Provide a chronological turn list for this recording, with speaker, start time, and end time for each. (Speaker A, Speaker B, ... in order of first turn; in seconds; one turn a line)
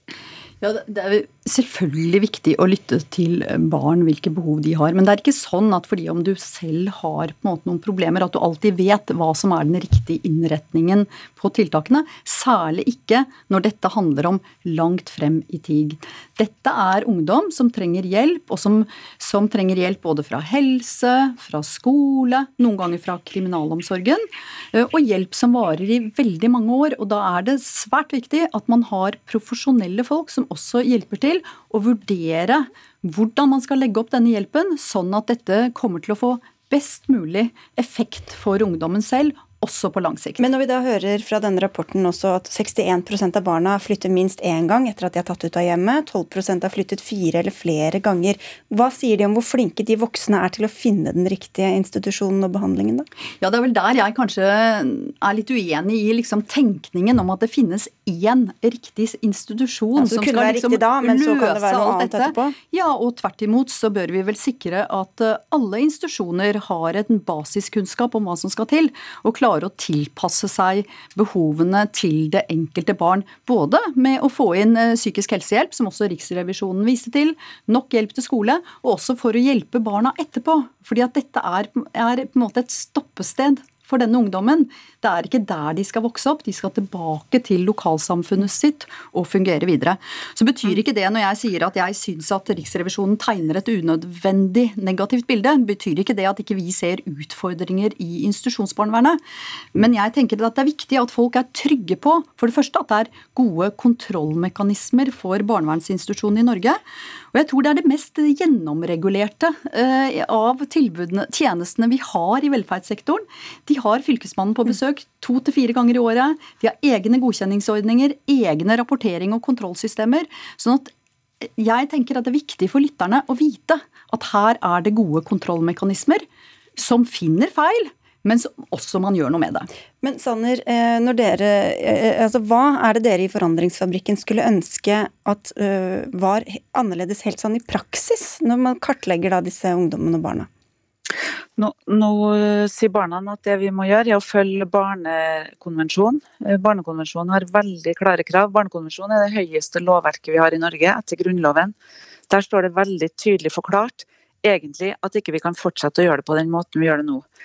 Speaker A: 0.6-40.5
Speaker B: 40.4-53.1
Speaker A: 53.4-99.2
Speaker B: 60.0-62.6
Speaker A: 99.8-106.8
Speaker A: 107.3-120.9
Speaker A: 121.5-126.3
Speaker A: 126.8-129.7
Speaker B: 130.0-140.5
Speaker C: 141.6-151.8
Speaker C: 152.3-157.3